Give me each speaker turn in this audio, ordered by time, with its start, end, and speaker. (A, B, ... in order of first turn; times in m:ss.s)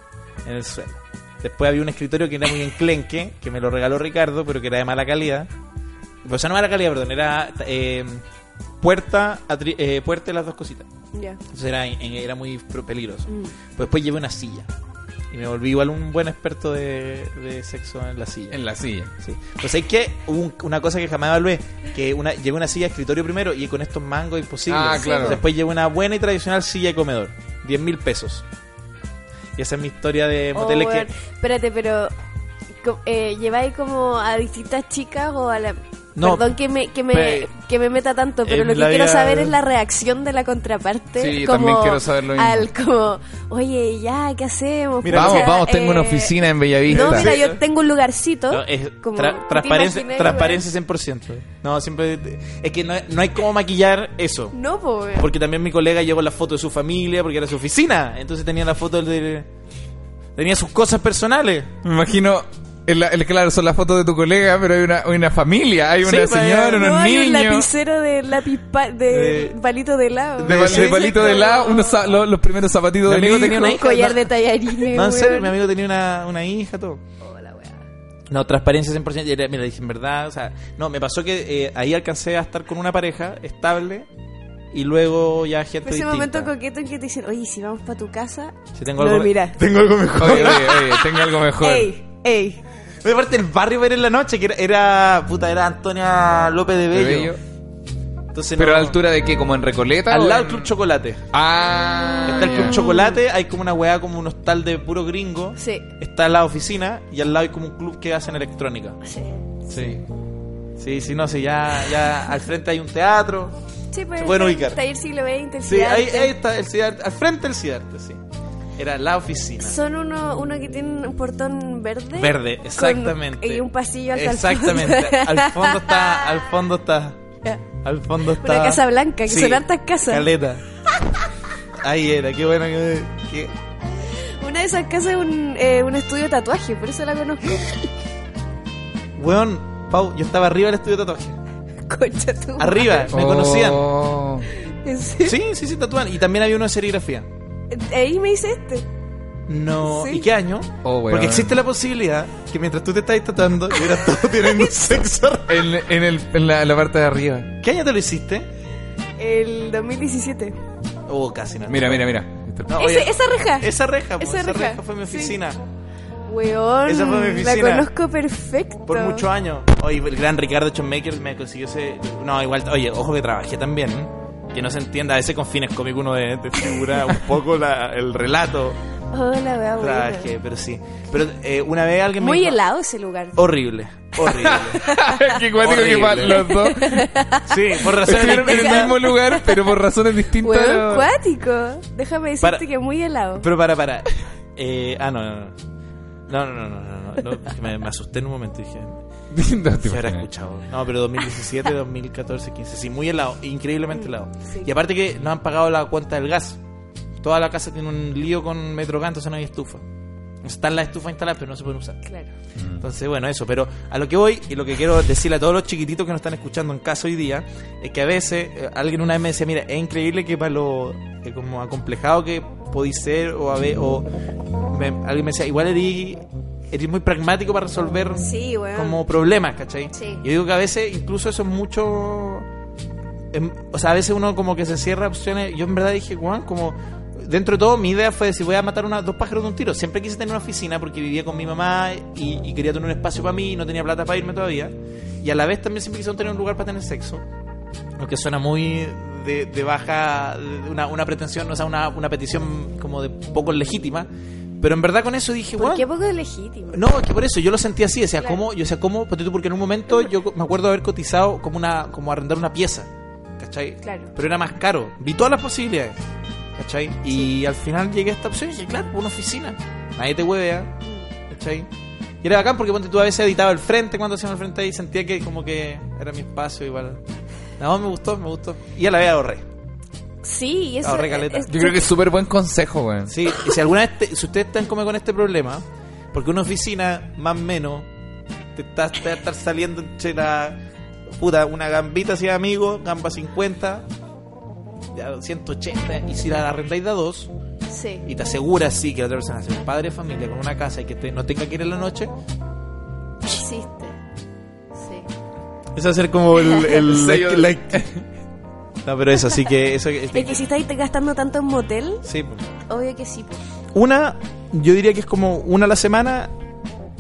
0:00.4-0:05.5 A
0:06.2-0:08.2 A
0:08.8-0:10.9 A
0:11.1-0:11.4 B
0:11.5-0:14.7 A
0:13.3-0:13.5 B
0:15.3-0:18.6 A
0:18.5-0:19.1 C
0:19.2-0:28.4 A
0:24.7-0:25.4 C
0:24.9-0:25.4 B
0:29.6-0:31.1 A
0:30.5-0:32.1 B
0:32.8-0:46.4 B
0:36.2-0:36.5 A
0:37.1-0:37.5 A
0:38.5-0:39.5 A
0:41.2-0:42.7 C
0:45.0-0:45.5 A
0:45.1-0:47.4 C
0:46.9-0:47.6 A
0:46.9-0:50.6 B
0:48.5-0:54.6 A
0:54.5-0:55.3 B
0:55.2-0:59.5 A
1:00.4-1:01.7 A
1:01.8-1:07.7 C
1:06.0-1:06.9 A
1:06.7-1:12.0 B
1:09.1-1:09.6 A
1:10.4-1:11.4 A
1:10.4-1:13.7 C
1:13.0-1:17.0 A
1:13.5-1:15.5 B
1:17.2-1:17.8 B
1:18.3-1:24.1 A
1:24.7-1:26.5 A
1:25.8-1:29.6 B
1:28.8-1:31.1 A
1:30.2-1:31.9 C
1:31.6-1:32.6 B
1:33.0-1:37.4 A
1:36.9-1:37.4 C
1:38.3-1:39.0 A
1:38.6-1:40.7 C
1:40.1-1:41.2 A
1:41.3-1:42.9 C
1:42.3-1:49.0 A
1:42.4-1:43.2 B
1:45.6-1:45.9 B
1:49.0-1:49.3 B
1:49.7-1:50.0 A
1:50.8-1:53.5 A
1:53.9-1:56.3 B
1:54.2-1:54.8 A
1:55.7-1:58.2 A
1:58.8-1:59.8 A
1:59.6-2:06.4 B
2:02.2-2:07.2 A
2:07.8-2:10.6 A
2:08.4-2:10.3 B
2:11.8-2:13.5 A
2:14.3-2:17.9 B
2:19.2-2:21.4 A
2:21.9-2:23.1 B
2:22.6-2:24.0 A
2:23.1-2:24.5 C
2:24.6-2:25.4 B
2:25.2-2:27.3 A
2:27.7-2:28.9 B
2:29.5-2:35.7 A
2:29.8-2:30.3 B
2:30.8-2:31.6 C
2:34.5-2:35.0 B
2:35.5-2:37.5 C
2:37.6-2:38.5 A
2:39.2-2:40.6 B
2:41.1-2:42.1 A
2:41.7-2:42.8 C
2:42.7-2:45.6 A
2:42.8-2:45.3 B
2:46.3-2:49.2 B
2:46.9-2:47.9 A
2:48.9-2:58.8 A
2:59.1-3:00.3 B
2:59.8-3:02.6 A
3:02.2-3:03.4 B
3:03.4-3:04.9 A
3:04.4-3:07.1 C
3:04.8-3:05.3 B
3:05.6-3:06.4 A
3:06.3-3:09.6 B
3:07.5-3:09.0 A
3:08.0-3:11.1 C
3:10.4-3:13.5 B
3:13.4-3:15.5 A
3:16.3-3:19.0 A
3:19.3-3:20.3 C
3:19.8-3:26.6 A
3:23.9-3:24.7 B
3:27.2-3:29.8 A
3:30.4-3:32.0 A
3:32.6-3:32.8 C
3:32.8-3:44.1 A
3:44.7-3:52.5 A
3:48.2-3:49.0 B
3:49.9-3:50.2 B
3:53.3-4:07.2 A
4:08.0-4:14.1 A
4:14.6-4:15.9 A
4:15.6-4:16.8 B
4:16.7-4:26.0 A
4:23.8-4:24.1 B
4:26.6-4:30.7 A
4:31.3-4:31.7 A
4:32.2-4:37.0 A
4:37.6-4:39.4 A
4:40.2-4:41.8 B
4:40.8-4:41.5 A
4:41.5-4:43.2 C
4:43.1-4:47.9 A
4:48.6-4:50.6 A
4:51.2-4:53.8 A
4:54.9-4:57.3 A
4:57.7-4:58.1 B
4:58.1-5:02.1 A
5:03.2-5:04.0 B
5:04.8-5:05.1 B
5:05.8-5:07.9 A
5:06.7-5:07.9 C
5:08.8-5:10.4 A
5:10.1-5:12.1 B
5:12.0-5:12.5 A
5:12.7-5:13.4 B
5:13.7-5:16.3 A